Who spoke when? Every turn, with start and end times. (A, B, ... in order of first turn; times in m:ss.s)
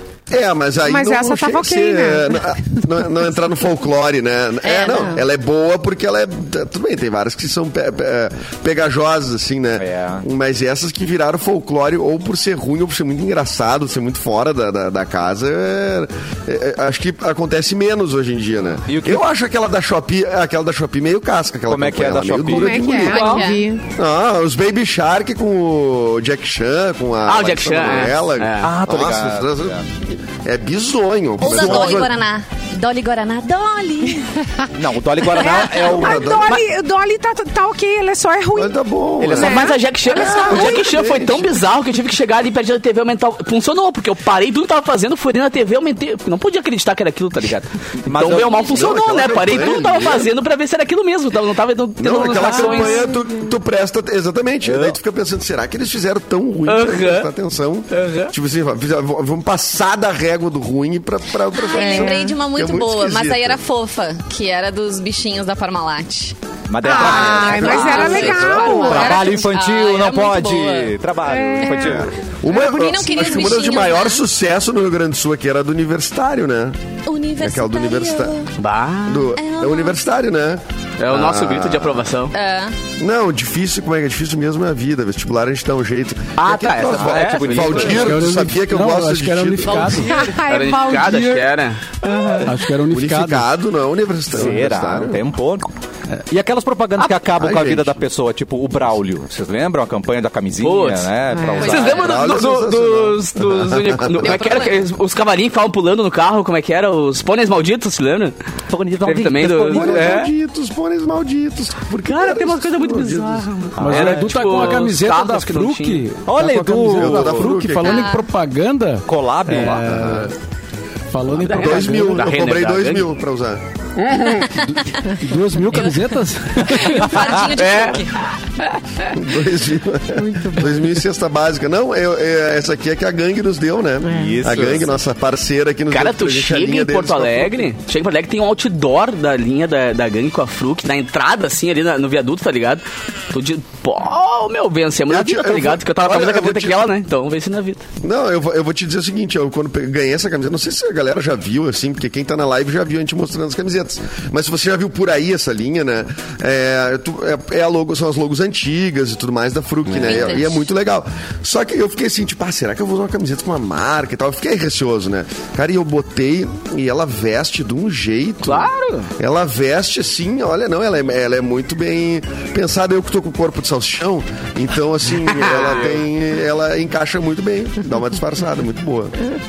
0:00.3-0:23.3 A
0:00.8-0:03.0 B
0:04.6-0:05.2 C
0:09.8-0:10.2 D
0:18.8-0:19.2 D
0:21.7-0:22.8 D
0:22.5-0:23.8 B
0:22.9-0:23.7 C
0:23.0-0:23.5 E
0:23.9-0:29.8 A
0:27.2-0:28.7 E
0:28.6-0:29.9 D
0:30.4-0:32.1 A
0:31.4-0:34.4 C
0:31.5-0:32.0 D
0:34.7-0:36.6 D
0:35.2-0:38.8 B
0:35.8-0:36.6 A
0:38.5-0:41.5 A
0:39.2-0:39.6 D
0:39.3-0:41.0 B
0:39.3-0:53.2 E
0:48.0-0:49.0 D
0:48.2-0:50.3 A
0:52.0-1:03.6 A
0:52.4-0:53.2 B
0:54.6-0:55.0 D
0:56.7-0:57.3 E
0:57.9-0:58.3 E
1:01.5-1:06.4 C
1:01.7-1:02.2 B
1:06.7-1:12.2 D
1:06.8-1:09.2 B
1:07.0-1:09.3 A
1:07.5-1:11.0 C
1:07.5-1:08.2 E
1:11.2-1:12.1 B
1:11.6-1:11.9 C
1:12.4-1:16.8 A
1:12.4-1:14.2 C
1:17.1-1:18.5 C
1:17.4-1:18.3 A
1:18.6-1:19.4 E
1:19.0-1:22.1 A
1:19.4-1:20.0 C
1:21.0-1:22.3 E
1:22.3-1:22.8 C
1:23.0-1:30.0 A
1:26.4-1:28.1 E
1:26.8-1:28.2 D
1:28.0-1:30.3 F
1:29.6-1:30.4 C
1:30.0-1:31.4 B
1:30.4-1:31.8 E
1:31.0-1:31.4 F
1:32.0-1:32.5 B
1:32.4-1:33.5 F
1:32.4-1:35.2 A
1:34.3-1:35.7 D
1:36.3-1:42.0 D
1:37.3-1:38.0 A
1:40.6-1:48.3 E
1:41.3-1:41.7 B
1:41.6-1:42.0 C
1:41.9-1:44.3 A
1:44.2-1:44.8 C
1:48.7-1:50.1 D
1:49.0-1:50.3 E
1:49.7-1:53.7 A
1:52.0-1:56.1 E
1:53.8-1:54.2 D
1:53.8-2:00.3 F
1:56.3-1:57.5 D
1:56.8-1:58.1 A
1:57.8-1:58.2 C
1:59.1-1:59.8 D
1:59.8-2:00.3 A
2:01.1-2:02.3 F
2:01.4-2:03.6 A
2:01.4-2:03.1 E
2:04.3-2:05.1 C
2:04.4-2:06.9 F
2:05.7-2:06.1 C
2:06.7-2:08.2 C
2:06.7-2:07.4 D
2:07.6-2:08.1 E
2:09.1-2:17.6 A
2:10.1-2:10.9 B
2:14.0-2:14.5 B
2:14.0-2:15.0 D
2:15.9-2:27.8 E
2:25.1-2:26.9 A
2:28.0-2:59.2 A
2:39.9-2:40.7 C
2:48.4-2:49.1 E
2:55.3-2:56.0 E